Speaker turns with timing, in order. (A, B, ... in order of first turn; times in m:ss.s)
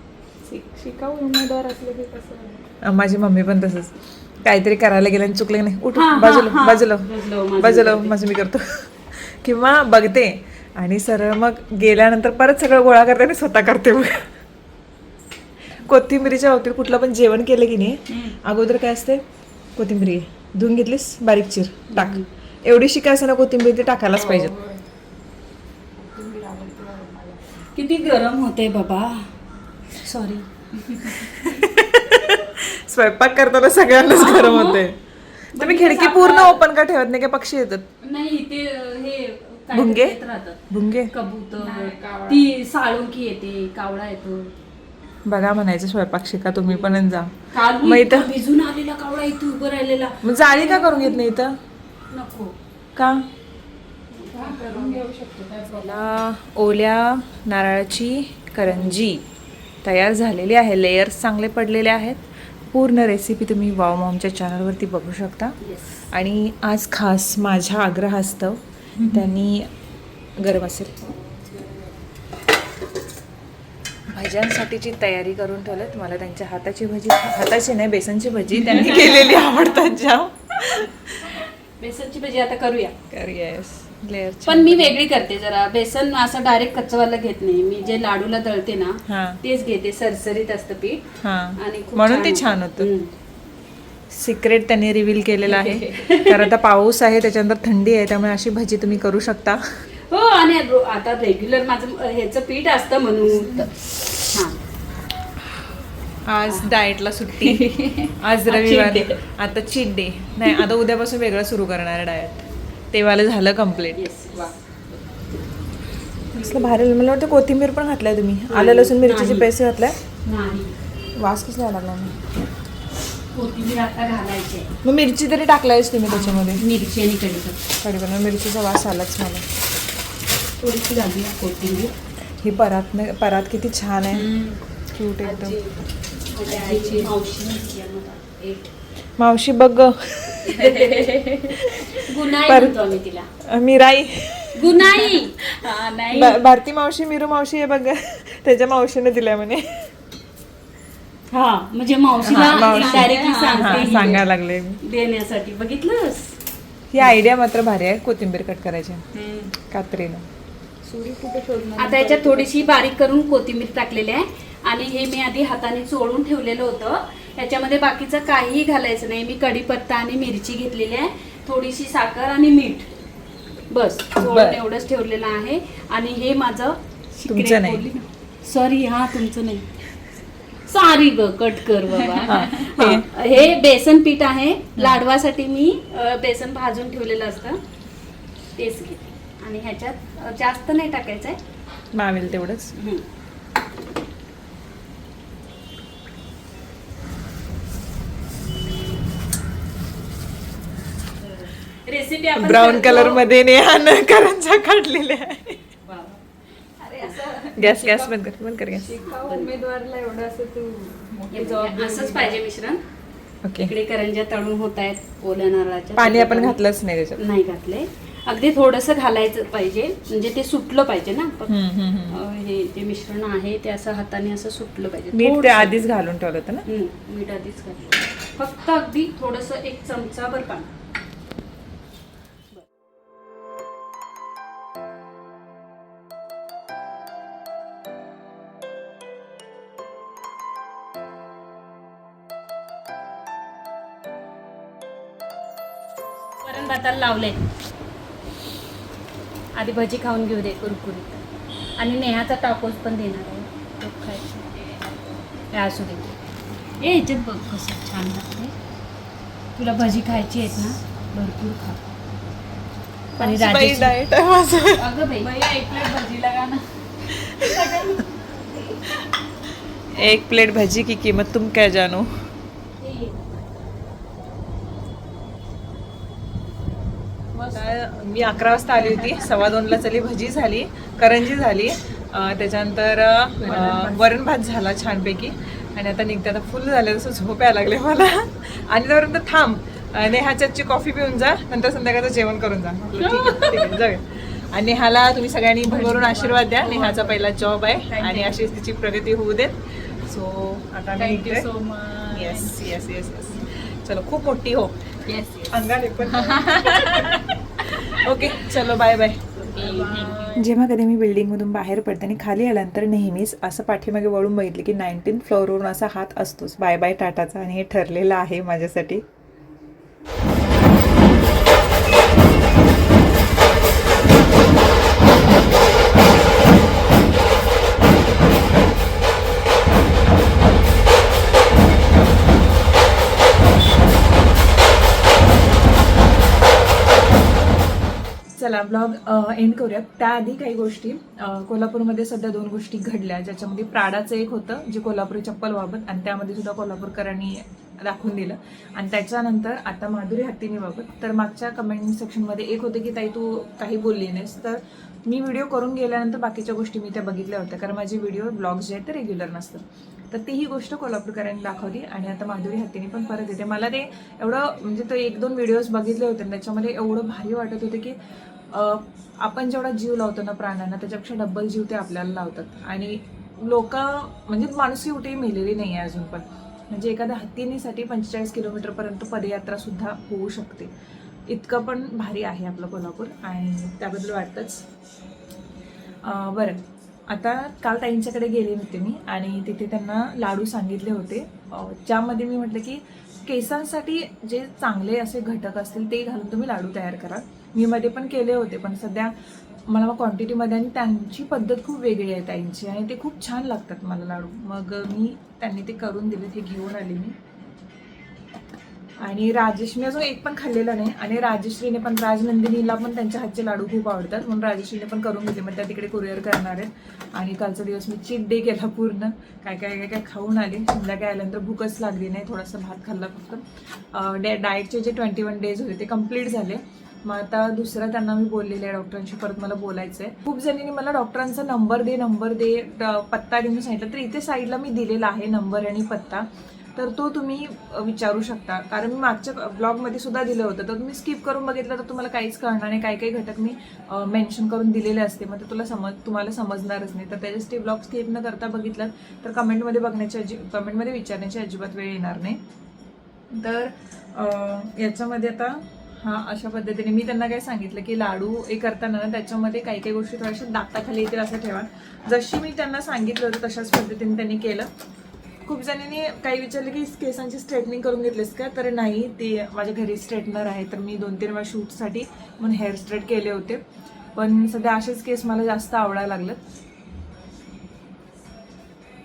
0:00.4-0:02.6 A
0:02.8-0:14.3 B
0:05.9-0:08.3 C
0:15.8-0:19.2 B
0:19.8-0:24.5 B
0:21.9-0:22.2 C
0:24.1-0:24.8 A
0:26.0-0:27.6 A
0:27.7-0:29.2 C
0:30.0-0:31.5 C
0:31.3-0:35.0 B
0:34.0-0:34.8 C
0:35.5-0:36.6 C
0:35.5-0:37.8 B
0:38.0-0:44.5 C
0:39.7-0:40.2 B
0:40.7-0:41.1 B
0:41.5-0:42.5 A
0:45.3-0:48.3 B
0:47.5-0:51.2 C
0:50.2-0:51.5 B
0:52.1-0:52.5 C
0:53.0-0:53.2 B
0:54.2-0:56.1 A
0:54.3-0:55.0 C
0:55.8-0:59.2 B
0:59.8-1:05.6 B
1:05.6-1:06.0 C
1:06.1-1:09.7 B
1:09.0-1:09.3 A
1:10.4-1:11.0 B
1:11.2-1:11.9 A
1:14.1-1:21.3 B
1:18.8-1:19.5 C
1:21.8-1:22.9 C
1:23.1-1:25.0 B
1:24.4-1:31.0 C
1:29.1-1:29.4 B
1:31.2-1:32.9 B
1:31.6-1:33.1 C
1:34.1-1:39.6 B
1:35.4-1:36.5 C
1:40.1-1:44.6 C
1:43.3-1:43.7 A
1:46.3-1:54.0 B
1:47.9-1:49.2 C
1:53.9-1:54.5 C
1:56.3-1:56.8 C
1:56.4-2:00.0 B
1:58.5-1:59.5 C
2:00.1-2:00.7 C
2:01.2-2:02.1 B
2:03.3-2:04.7 C
2:04.8-2:06.6 B
2:06.1-2:07.6 C
2:07.8-2:09.4 B
2:10.6-2:11.9 C
2:12.4-2:14.2 B
2:14.2-2:14.6 A
2:14.9-2:15.6 B
2:15.2-2:15.6 A
2:15.3-2:15.6 C
2:16.2-2:18.7 C
2:16.4-2:17.1 A
2:19.2-2:20.6 B
2:20.5-2:23.3 C
2:20.5-2:21.5 A
2:21.5-2:22.9 B
2:23.5-2:24.9 B
2:24.6-2:25.4 C
2:24.9-2:26.4 A
2:26.1-2:29.9 B
2:31.3-2:34.2 C
2:32.2-2:34.2 A
2:32.2-2:34.8 B
2:34.8-2:36.4 C
2:36.9-2:39.0 B
2:39.1-2:39.5 A
2:39.7-2:40.2 B
2:40.8-2:42.8 A
2:41.8-2:52.9 C
2:53.7-2:59.6 C
2:54.2-2:54.6 B
2:57.3-2:57.8 B
3:00.7-3:07.6 C
3:02.0-3:02.6 A
3:02.2-3:03.1 B
3:08.6-3:11.4 C
3:11.9-3:12.7 B
3:12.8-3:13.0 C
3:21.2-3:23.3 C
3:22.4-3:25.6 B
3:25.8-3:26.2 C
3:26.8-3:28.1 A
3:27.6-3:28.9 B
3:28.7-3:32.4 A
3:29.1-3:29.5 C
3:31.3-3:32.8 C
3:33.4-3:33.7 B
3:33.6-3:36.6 C
3:36.0-3:37.2 B
3:37.2-3:41.5 C
3:41.5-3:42.2 B
3:42.1-3:45.8 C
3:45.1-3:46.6 B
3:46.6-3:50.7 C
4:06.4-4:07.4 C
4:09.5-4:11.2 C
4:11.8-4:14.5 C
4:15.5-4:16.1 C
4:16.8-4:18.5 C
4:19.6-4:21.8 C
4:23.2-4:24.0 C
4:23.2-4:24.9 B
4:24.8-4:25.4 C
4:25.2-4:26.6 A
4:27.3-4:28.1 A
4:27.5-4:28.0 C
4:29.9-4:32.1 B
4:32.8-4:33.1 C
4:37.4-4:39.2 A
4:37.5-5:01.5 B
4:43.4-4:44.0 A
4:53.0-4:53.5 C
4:55.6-4:58.5 A
5:01.0-5:02.7 A
5:02.1-5:04.8 B
5:05.0-5:07.4 A
5:05.5-5:09.3 B
5:09.4-5:10.5 A
5:09.6-5:10.3 C
5:10.4-5:19.0 D
5:38.4-6:08.0 B
6:08.5-6:20.7 B
6:21.3-6:24.6 B
6:26.0-6:39.1 B
6:39.7-6:47.2 B
6:49.0-7:32.4 B
7:33.3-7:44.7 B
7:45.4-7:53.6 B
7:54.1-7:56.4 B